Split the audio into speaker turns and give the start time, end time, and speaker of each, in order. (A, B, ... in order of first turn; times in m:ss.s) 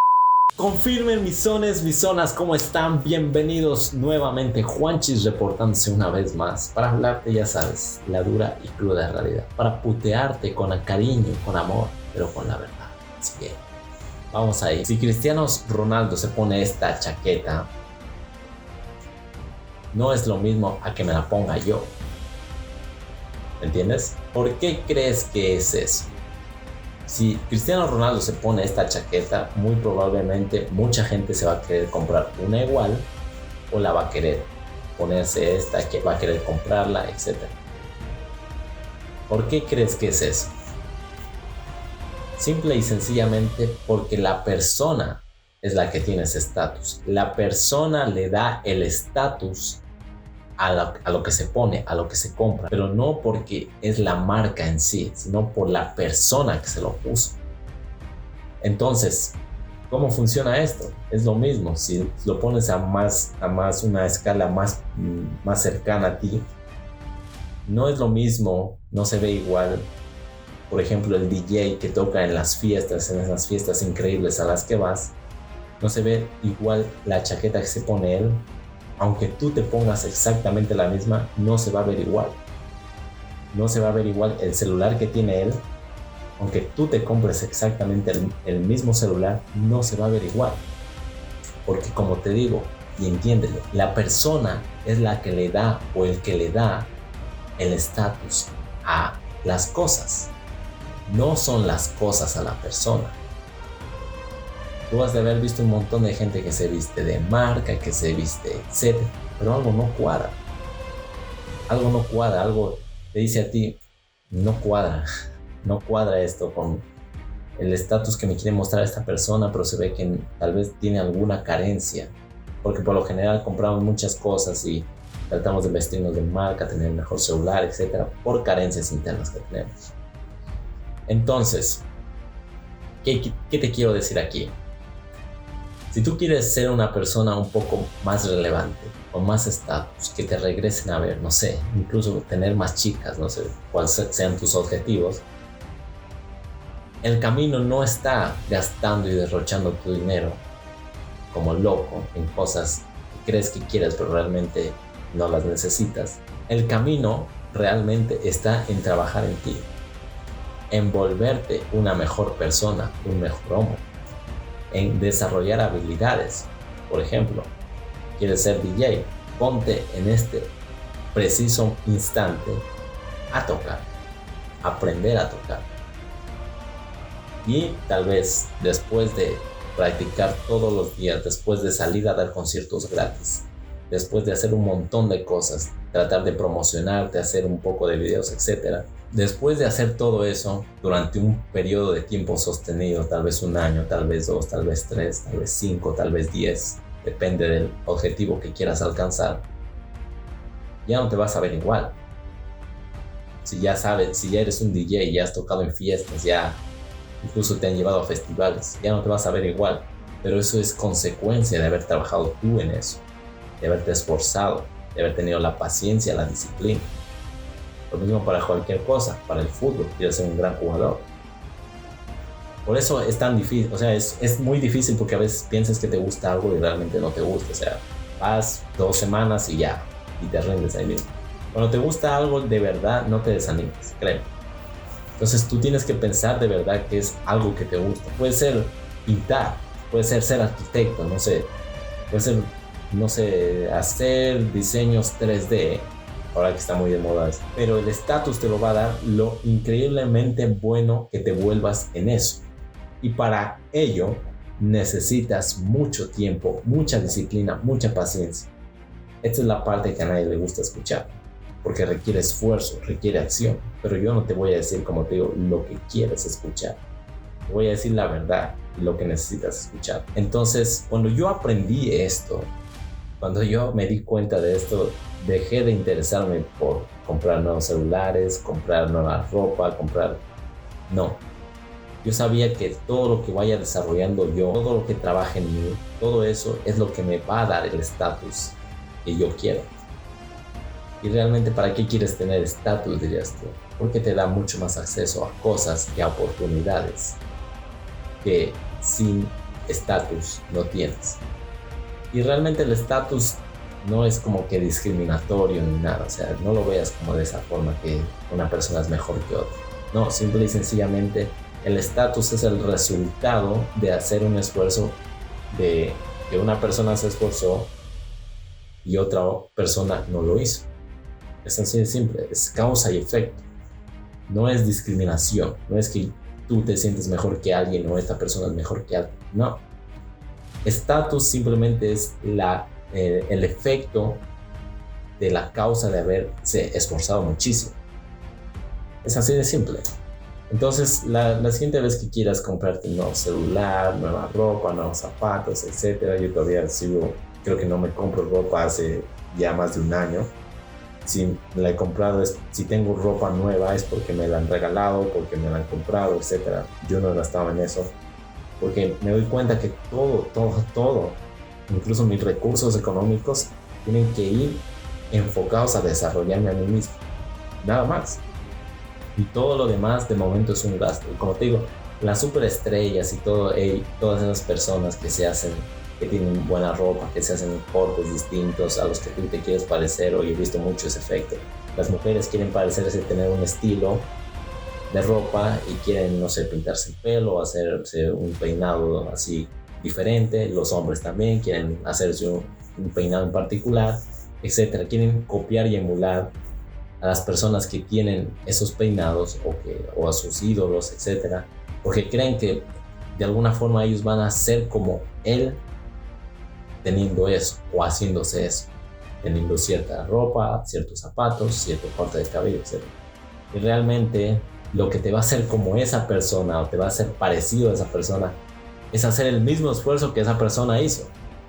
0:00.6-0:13.6 A
0:14.3-0:17.7 A
0:19.9-0:21.9 A
0:23.6-0:26.1 A
0:27.1-0:33.1 A
0:33.7-0:37.6 A
0:39.3-0:40.5 A
0:42.4-0:49.8 A
0:50.6-0:57.4 A
0:58.6-0:59.4 A
0:59.9-1:06.5 A
1:07.7-1:09.9 A
1:10.7-1:15.2 A
1:15.8-1:18.4 A
1:19.0-1:22.4 A
1:23.5-1:25.6 A
1:26.4-1:30.6 A
1:31.7-1:36.9 A
1:37.6-1:40.3 A
1:41.1-1:43.2 A
1:44.9-1:50.4 A
1:51.7-1:53.8 A
1:54.3-1:55.1 A
1:55.6-1:56.8 A
1:57.6-2:09.9 A
2:11.1-2:11.8 A
2:13.0-2:14.6 A
2:15.9-2:25.2 A
2:27.0-2:30.4 A
2:31.3-2:39.7 A
2:40.7-2:43.9 A
2:44.7-2:47.5 A
2:48.2-2:50.5 A
2:51.1-2:52.7 A
2:53.3-2:53.9 A
2:54.6-2:55.7 A
2:57.4-3:19.4 A
3:20.8-3:22.0 A
3:23.4-3:26.6 A
3:27.2-3:33.0 A
3:33.6-3:36.9 A
3:37.9-3:41.1 A
3:42.6-3:54.3 A
3:55.2-4:01.5 A
4:02.1-4:12.4 A
4:13.0-4:18.5 A
4:19.2-4:26.8 A
4:27.5-4:32.5 A
4:33.2-4:40.2 A
4:40.9-4:41.2 A
4:42.0-4:49.7 A
4:51.0-4:57.2 A
4:58.2-5:01.2 A
5:02.1-5:17.7 A
5:18.8-5:20.7 A
5:21.4-5:23.4 A
5:24.3-5:29.6 A
5:30.6-5:34.2 A
5:35.2-5:37.8 A
5:39.0-5:39.8 A
5:40.5-5:50.3 A
5:51.0-5:58.0 A
5:58.6-6:07.0 A
6:07.6-6:08.2 A
6:09.2-6:24.1 A
6:24.9-6:36.3 A
6:37.0-6:45.6 A
6:46.8-6:52.9 A
6:53.5-6:58.4 A
6:58.9-7:01.1 A